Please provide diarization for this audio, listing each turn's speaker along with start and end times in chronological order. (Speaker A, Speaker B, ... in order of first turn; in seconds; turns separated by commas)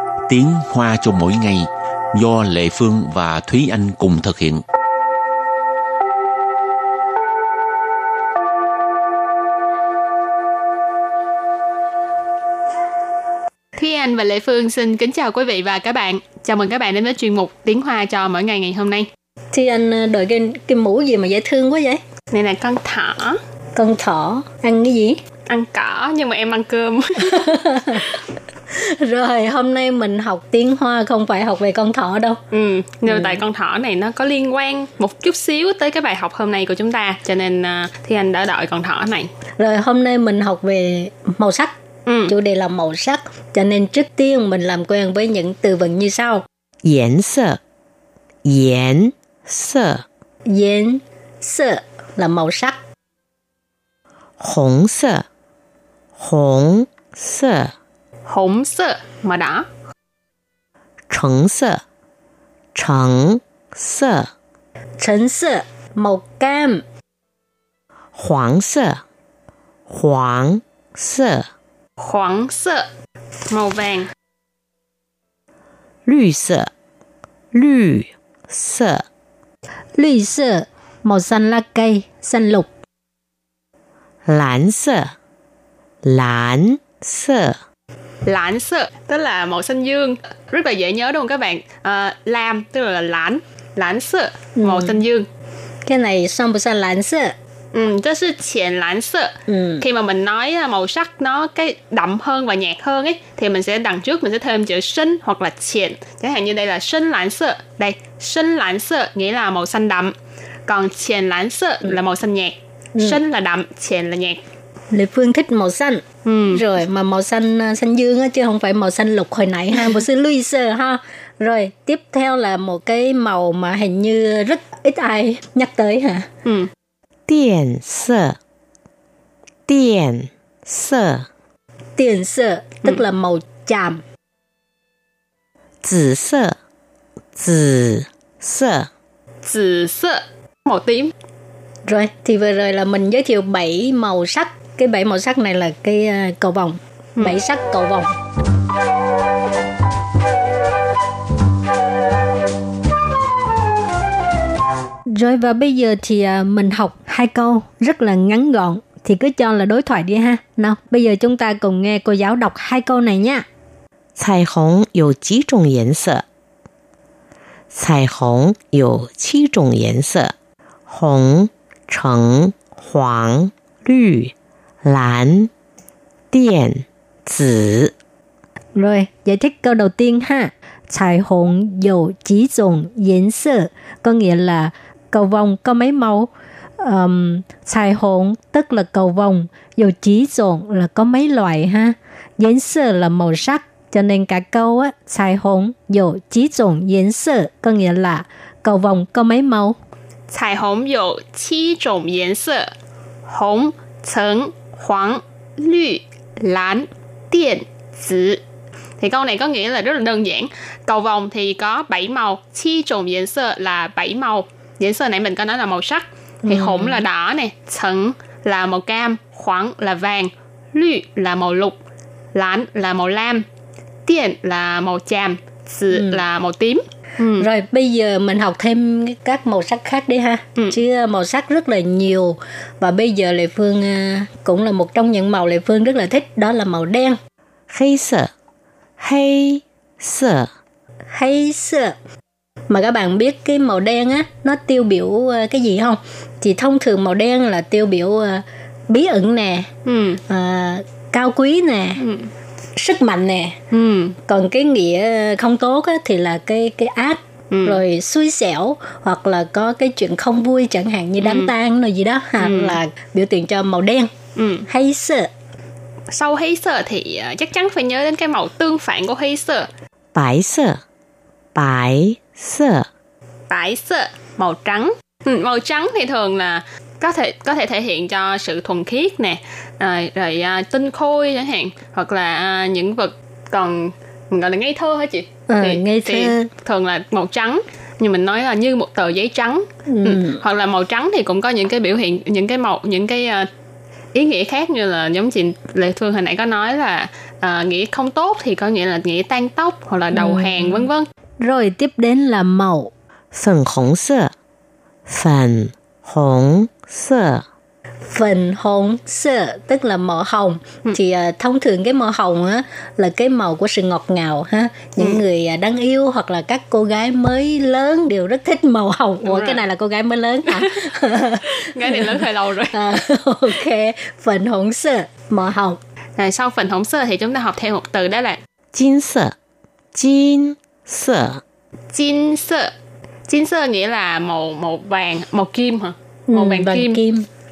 Speaker A: 0.3-4.6, Speaker B: 13.8-19.1, Speaker C: 19.5-22.0, Speaker B: 22.3-23.4, Speaker C: 23.7-25.2, Speaker B: 25.5-27.5, Speaker C: 27.3-28.0, Speaker C: 28.7-32.4, Speaker B: 32.5-39.3, Speaker C: 33.1-33.4, Speaker C: 39.6-41.7, Speaker B: 42.0-42.3, Speaker C: 42.3-46.4, Speaker D: 46.8-47.6, Speaker D: 48.4-50.0, Speaker C: 50.5-52.8, Speaker D: 54.4-55.2, Speaker D: 56.2-57.7, Speaker B: 58.3-59.6, Speaker D: 61.1-61.8, Speaker D: 62.7-64.3, Speaker C: 65.0-66.8, Speaker D: 68.1-69.0, Speaker D: 69.9-71.5, Speaker B: 72.0-72.9, Speaker B: 73.5-74.1, Speaker D: 76.0-76.7, Speaker D: 77.5-79.0, Speaker C: 80.0-82.7, Speaker D: 84.2-85.1, Speaker D: 86.0-87.6, Speaker B: 88.2-95.2, Speaker C: 94.6-95.0, Speaker C: 95.8-97.3, Speaker B: 97.7-110.1, Speaker C: 99.5-99.8, Speaker B: 110.7-114.4, Speaker C: 114.9-126.3, Speaker B: 116.2-116.6, Speaker D: 127.3-128.4, Speaker D: 129.7-131.3, Speaker C: 131.9-134.0, Speaker D: 135.8-136.6, Speaker D: 137.3-138.9, Speaker B: 139.4-141.1, Speaker C: 141.9-148.1, Speaker C: 155.1-163.4, Speaker D: 164.2-166.2, Speaker D: 167.7-170.3, Speaker D: 170.9-174.3, Speaker D: 174.8-175.5, Speaker D: 176.3-177.9, Speaker C: 178.7-199.8, Speaker B: 200.3-202.7, Speaker B: 203.3-208.4, Speaker B: 209.0-221.8, Speaker C: 216.4-217.0, Speaker B: 222.3-223.4, Speaker B: 224.1-227.5, Speaker C: 225.9-226.2, Speaker C: 227.4-237.2, Speaker D: 237.7-238.3, Speaker D: 239.0-240.5, Speaker C: 241.1-241.9, Speaker C: 242.7-249.7, Speaker B: 249.8-250.2, Speaker C: 250.3-252.0, Speaker B: 252.0-252.3, Speaker C: 252.8-253.6, Speaker B: 253.7-254.2, Speaker C: 254.3-264.1, Speaker B: 257.5-257.8, Speaker B: 261.2-261.5, Speaker B: 262.4-262.8, Speaker B: 264.4-264.6, Speaker C: 264.7-265.3, Speaker B: 266.1-269.7, Speaker D: 270.1-270.8, Speaker D: 271.5-272.9, Speaker B: 273.5-293.5, Speaker C: 285.5-286.5, Speaker C: 289.9-290.4, Speaker B: 294.1-301.1, Speaker C: 300.1-300.9, Speaker C: 301.4-302.9, Speaker D: 303.3-304.3, Speaker D: 305.1-307.4, Speaker C: 308.1-322.1, Speaker B: 319.2-319.6, Speaker B: 321.4-322.9, Speaker C: 322.7-325.8, Speaker B: 326.2-328.4, Speaker D: 328.7-329.3, Speaker D: 329.9-331.4, Speaker B: 331.9-332.7, Speaker B: 333.3-337.0, Speaker C: 336.3-337.2